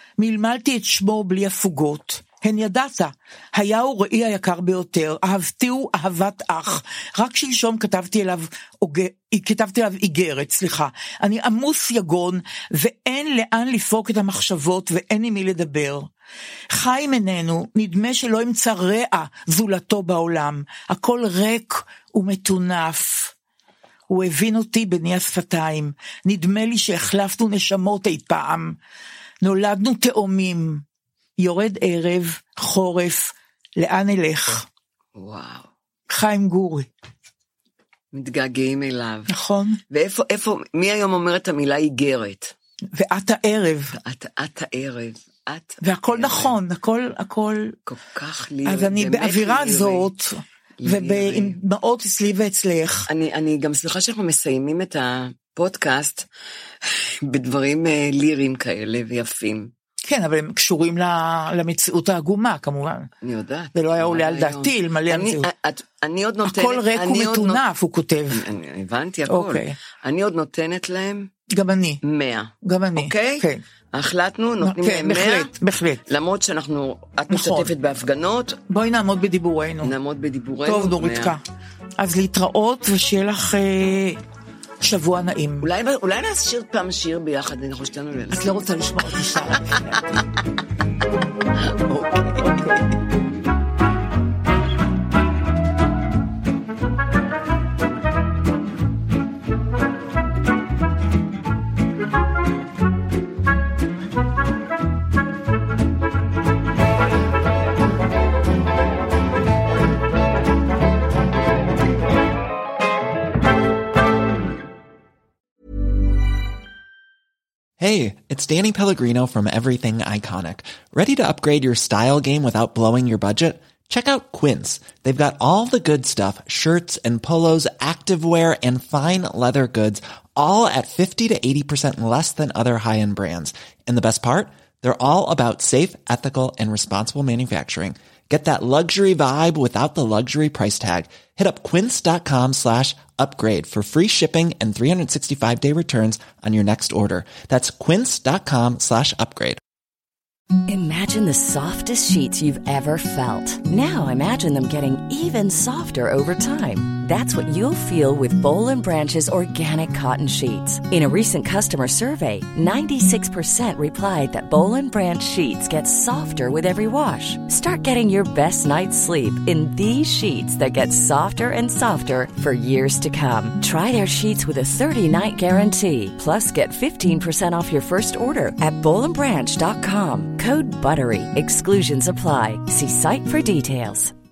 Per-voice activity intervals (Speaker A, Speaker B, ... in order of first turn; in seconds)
Speaker A: 0.2-16.1, 16.7-23.3, 24.1-28.8, 29.4-30.8, 31.4-34.6, 36.1-36.9, 39.3-39.8, 43.0-44.0, 45.8-47.8, 48.7-53.1, 60.0-63.1, 63.8-65.5, 66.5-68.4, 69.3-69.8, 71.5-72.0, 72.6-73.6, 74.6-76.0, 77.3-77.7, 78.7-79.9, 80.7-81.4, 82.0-84.2, 84.8-85.7, 88.3-90.2, 92.4-92.8
Speaker B: 35.2-35.7, 38.1-39.3, 39.9-42.5, 44.0-46.5, 47.9-50.1, 50.8-51.6, 53.1-56.3, 56.8-59.7, 63.2-67.6, 68.3-71.3, 72.0-75.5, 76.1-78.6, 79.8-81.3, 85.6-88.8, 91.9-92.5
Speaker C: 117.8-149.6
Speaker D: 150.7-184.1